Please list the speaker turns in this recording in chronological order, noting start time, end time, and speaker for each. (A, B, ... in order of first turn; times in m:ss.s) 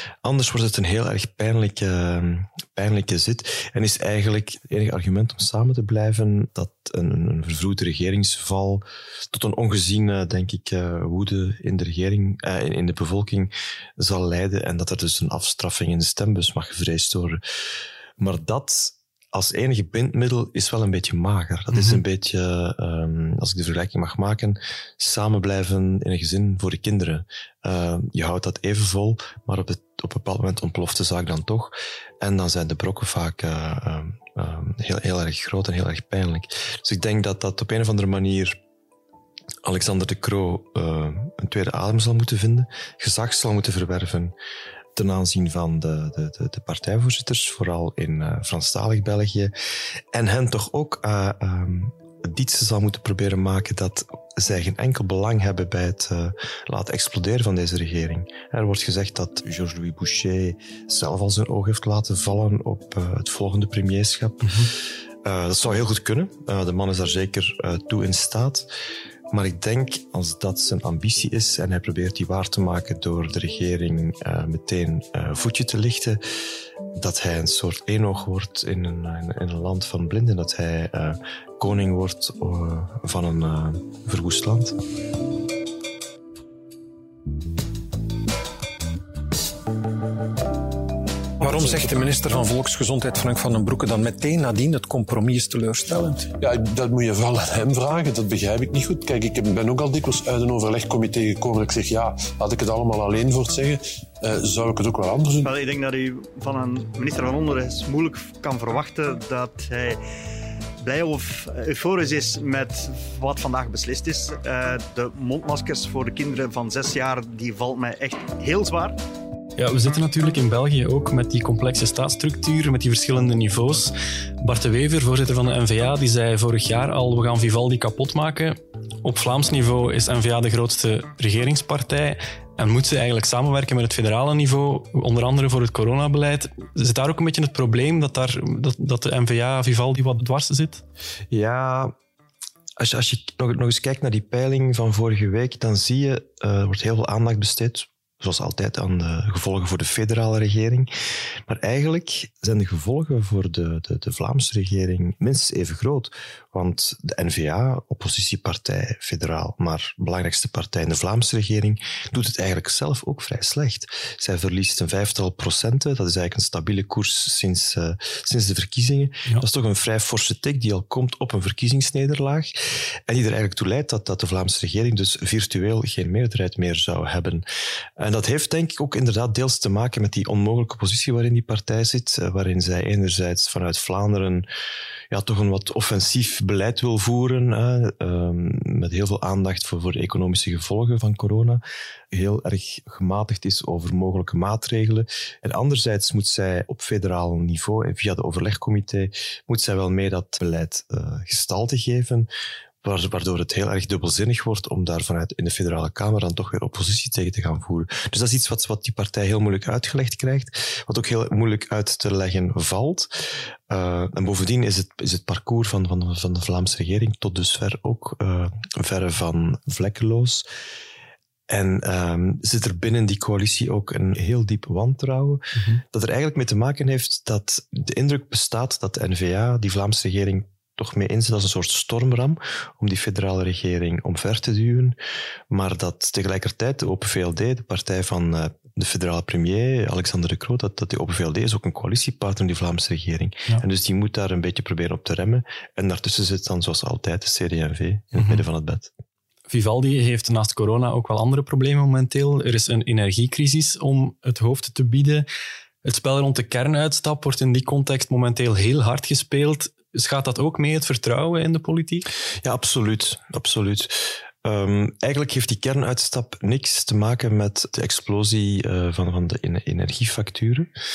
0:00.2-0:17.4 A
0:18.2-0:38.6 A
0:21.7-0:22.0 B
0:39.6-0:44.4 A
0:45.0-0:49.5 A
0:50.1-1:04.5 A
1:04.4-1:04.7 B
1:05.2-1:08.7 A
1:09.3-1:16.2 A
1:17.0-1:24.8 A
1:31.4-1:36.3 C
1:36.4-1:45.5 D
1:45.4-1:50.0 E
1:50.8-1:59.0 E
1:59.6-2:20.8 B
2:21.3-2:21.9 A
2:22.8-2:30.9 A
2:31.5-2:52.5 A
2:53.1-2:57.4 A
2:58.0-3:04.5 A
3:05.1-3:22.3 A
3:22.8-3:33.1 A
3:33.7-3:40.5 A
3:41.5-3:55.0 A
3:45.6-3:45.8 B
3:55.5-4:08.9 A
4:08.2-4:08.4 B
4:09.5-4:15.3 B
4:15.8-4:22.1 B
4:22.4-4:30.7 A